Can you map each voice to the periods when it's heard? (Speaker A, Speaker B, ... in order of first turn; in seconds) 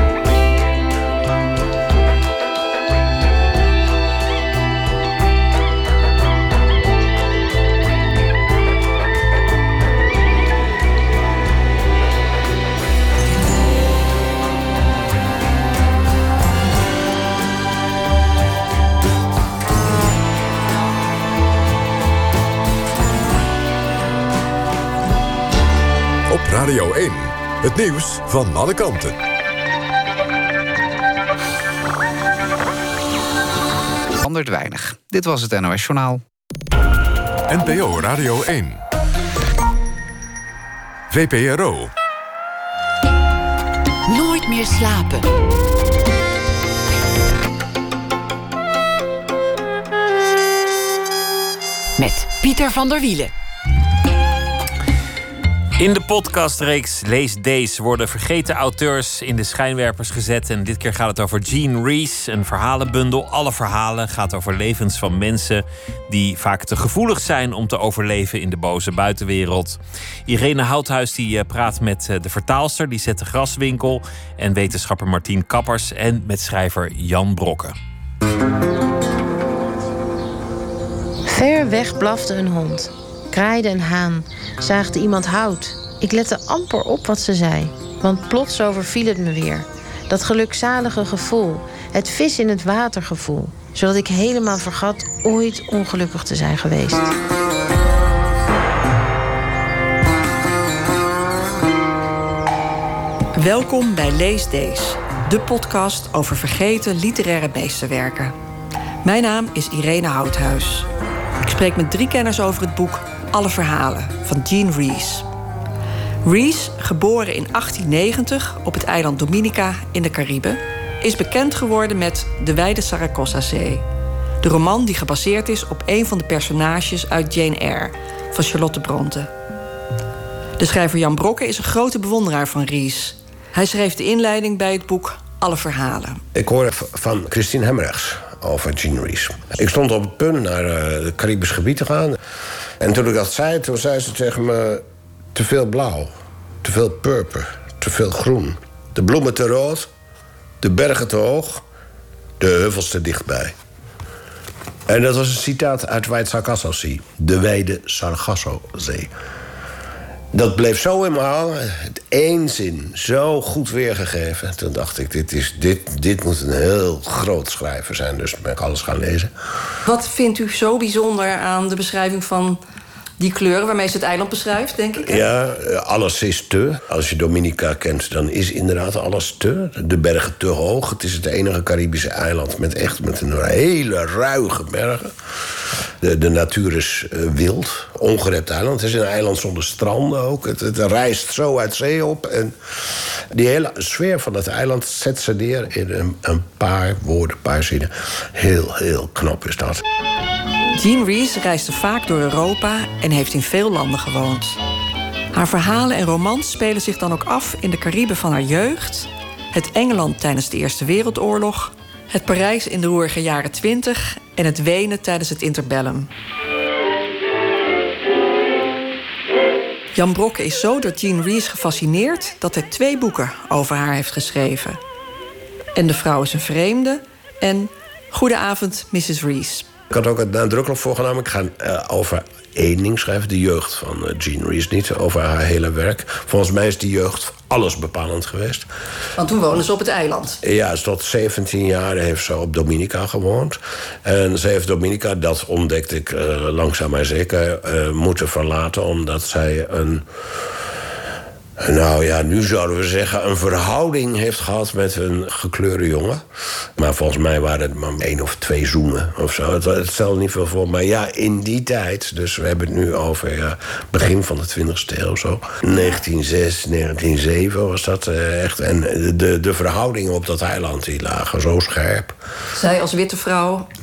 Speaker A: 26.3-29.1, 37.5-38.8, 41.1-41.9
Speaker B: 34.2-36.2
Speaker C: 44.1-45.3, 52.0-53.3
Speaker D: 55.8-77.8
Speaker E: 81.2-97.1
Speaker F: 103.3-108.3, 109.0-110.9, 111.4-115.2, 116.2-123.8, 124.4-129.3, 130.6-136.2, 169.8-172.6, 173.2-175.2, 200.7-204.6, 205.3-216.1, 219.9-224.8, 225.8-229.7, 239.2-240.4, 272.5-273.7
Speaker G: 136.3-142.2, 142.8-144.8, 145.3-146.1, 146.6-149.9, 150.6-151.6, 152.4-153.5, 154.9-159.1, 160.3-169.3, 175.0-185.1, 186.0-199.8, 229.9-238.7, 240.4-250.1, 251.6-256.2, 256.8-272.1